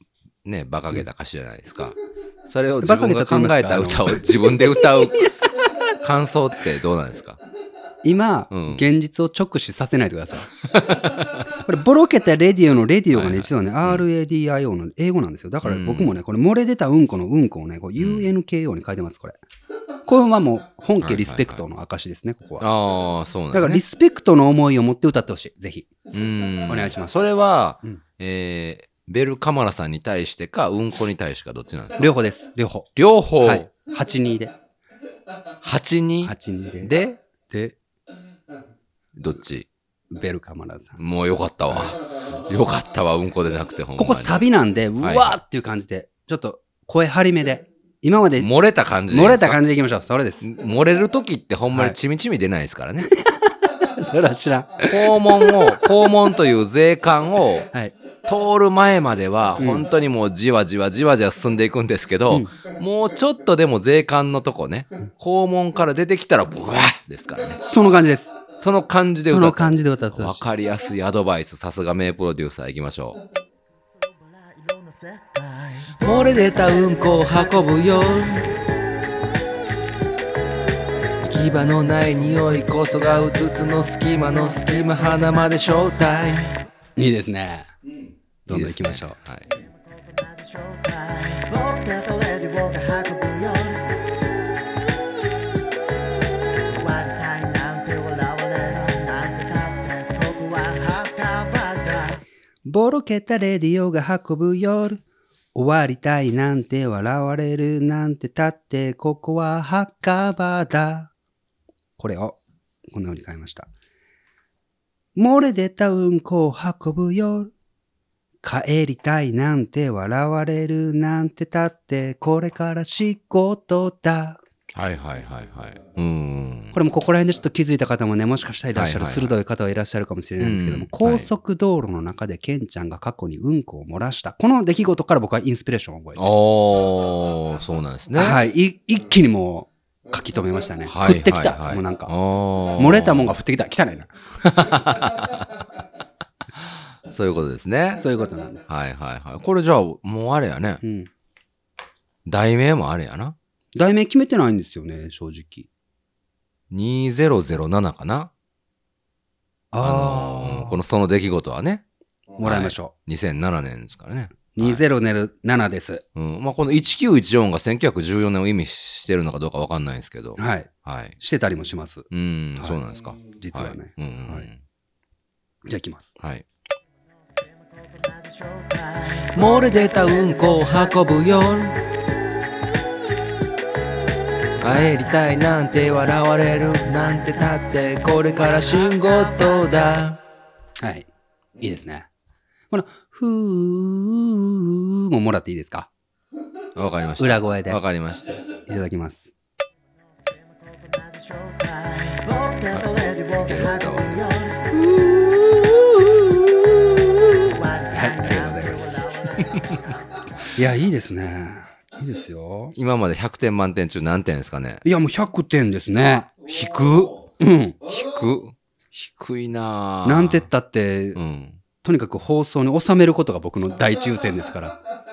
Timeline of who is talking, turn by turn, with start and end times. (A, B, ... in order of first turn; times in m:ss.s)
0:00.4-0:05.3 A
0:02.8-0:05.7 B
0:06.0-0:07.4 A
0:08.0-0:10.5 B
0:08.5-0:08.8 A
0:10.7-0:11.4 A
0:11.5-0:19.4 B
0:13.1-0:14.1 A
0:15.6-0:16.2 A
0:18.0-0:18.3 A
0:20.1-0:22.7 B
0:21.0-0:21.6 A
0:22.6-0:23.8 A
0:23.5-0:25.9 B
0:26.1-0:32.1 A
0:26.7-0:27.2 B
0:32.0-0:34.5 B
0:33.0-0:33.7 A
0:35.6-0:37.2 A
0:36.2-0:36.9 B
0:37.5-0:37.8 B
0:39.2-0:39.7 A
0:40.1-0:41.0 B
0:41.0-0:44.4 A
0:44.0-0:48.5 B
0:45.0-0:45.4 A
0:48.4-0:49.6 A
0:49.1-0:50.5 B
0:50.4-0:53.1 A
0:53.1-0:55.9 B
0:54.9-0:57.7 A
0:58.3-1:07.6 A
0:59.6-0:59.9 B
1:07.6-1:08.3 B
1:08.6-1:13.2 A
1:09.3-1:10.4 B
1:14.0-1:16.0 C
1:16.0-1:18.5 A
1:21.2-1:26.6 A
1:24.5-1:25.4 C
1:27.0-1:27.7 B
1:28.5-1:29.2 B
1:28.5-1:29.5 A
1:29.5-1:34.0 C
1:36.7-1:42.2 C
1:42.6-1:45.0 B
1:45.6-1:51.1 B
1:52.0-1:52.4 B
1:52.9-1:53.7 B
1:55.2-1:57.5 B
1:58.4-2:04.4 B
2:04.7-2:06.8 A
2:06.7-2:16.2 B
2:08.8-2:09.4 A
2:10.4-2:11.3 A
2:16.2-2:18.4 A
2:18.2-2:22.1 B
2:20.9-2:23.3 A
2:22.8-2:24.1 B
2:24.4-2:25.5 A
2:26.6-2:28.0 A
2:28.0-2:28.7 B
2:28.7-2:30.8 A
2:30.8-2:31.1 B
2:32.3-2:33.4 A
2:33.8-2:35.7 B
2:36.7-2:38.3 A
2:39.7-2:40.8 B
2:39.8-2:41.8 A
2:42.4-2:42.9 B
2:42.4-2:44.8 A
2:44.5-2:46.0 B
2:46.2-2:51.2 A
2:50.4-2:52.1 B
2:52.1-2:54.6 A
2:53.4-2:54.5 B
2:55.6-2:56.2 B
2:56.2-2:56.4 A
2:57.3-2:59.8 C
2:59.3-3:01.8 A
3:04.6-3:10.2 A
3:08.1-3:09.7 C
3:10.8-3:11.1 B
3:11.6-3:12.1 B
3:12.7-3:15.9 B
3:16.8-3:18.4 A
3:17.2-3:17.8 B
3:18.6-3:19.3 B
3:20.2-3:24.7 C
3:22.7-3:24.2 A
3:24.9-3:27.3 A
3:27.4-3:30.0 C
3:27.9-3:29.1 B
3:29.4-3:29.7 A
3:30.6-3:32.8 B
3:32.8-3:34.8 A
3:34.8-3:36.4 B
3:36.5-3:37.1 A
3:37.3-3:37.8 B
3:37.9-3:40.5 A
3:40.0-3:41.2 B
3:41.2-3:41.6 A
3:41.8-3:44.8 B